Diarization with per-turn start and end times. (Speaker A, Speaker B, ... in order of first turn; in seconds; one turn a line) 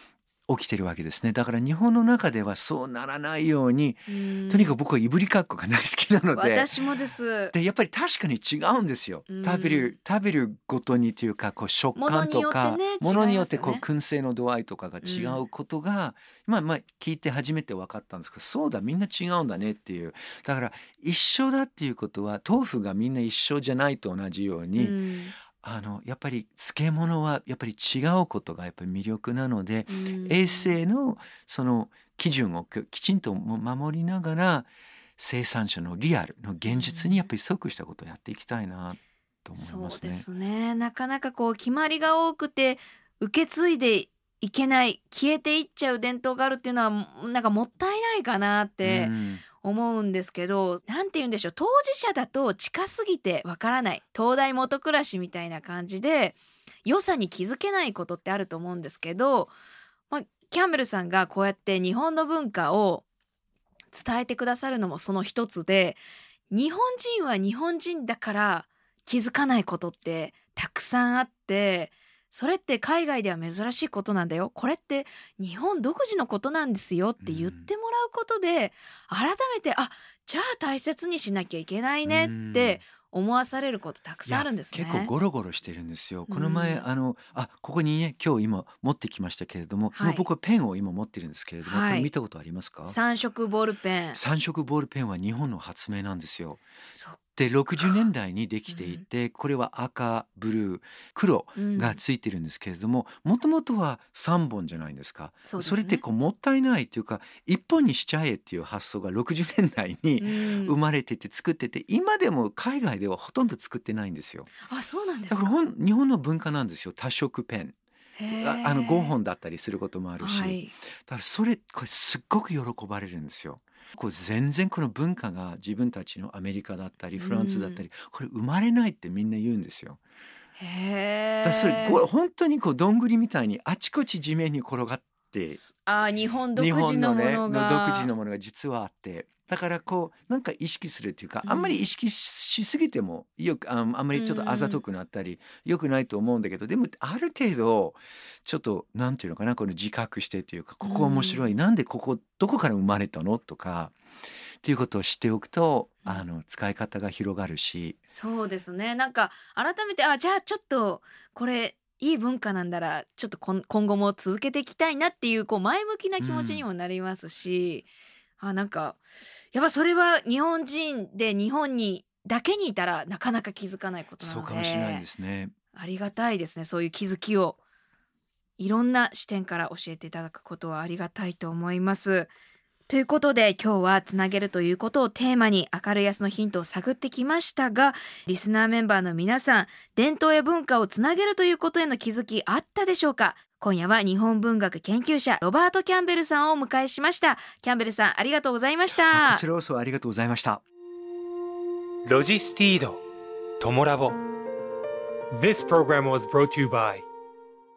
Speaker A: 0.5-6.7
Speaker B: 4.1-4.8
Speaker B: 6.3-7.5
Speaker A: 7.5-24.9
Speaker B: 9.3-9.9
Speaker B: 11.9-13.8
Speaker B: 15.0-15.4
Speaker B: 24.8-25.3
Speaker A: 25.6-40.2
Speaker B: 29.9-30.8
Speaker B: 36.6-37.3
Speaker B: 39.5-59.5
Speaker A: 48.8-49.4
Speaker B: 60.1-63.0
Speaker B: 63.9-85.1
Speaker A: 77.2-77.7
Speaker A: 82.0-82.8
Speaker A: 84.3-93.0
Speaker B: 86.3-86.8
Speaker B: 89.9-90.2
Speaker B: 91.6-92.1
Speaker B: 92.9-94.2
Speaker A: 94.1-96.6
Speaker A: 97.3-114.5
Speaker B: 98.7-99.0
Speaker B: 101.5-102.0
Speaker B: 105.5-106.0
Speaker B: 110.2-110.8
Speaker B: 114.7-115.5
Speaker A: 115.3-117.8
Speaker B: 118.2-119.1
Speaker A: 118.3-130.0
Speaker B: 120.2-120.7
Speaker B: 127.2-127.8
Speaker B: 130.6-132.0
Speaker A: 131.4-135.6
Speaker B: 135.5-138.1
Speaker A: 136.5-153.9
Speaker B: 141.4-141.8
Speaker B: 144.1-144.8
Speaker B: 150.8-151.5
Speaker A: 154.6-158.0
Speaker B: 158.1-167.8
Speaker A: 166.2-166.7
Speaker B: 168.4-169.0
Speaker B: 169.5-175.0
Speaker A: 174.2-175.5
Speaker B: 175.7-177.6
Speaker B: 178.6-182.3
Speaker B: 182.9-199.4
Speaker A: 198.9-200.6
Speaker C: 202.0-203.0
Speaker C: 203.6-204.2
Speaker C: 205.3-207.1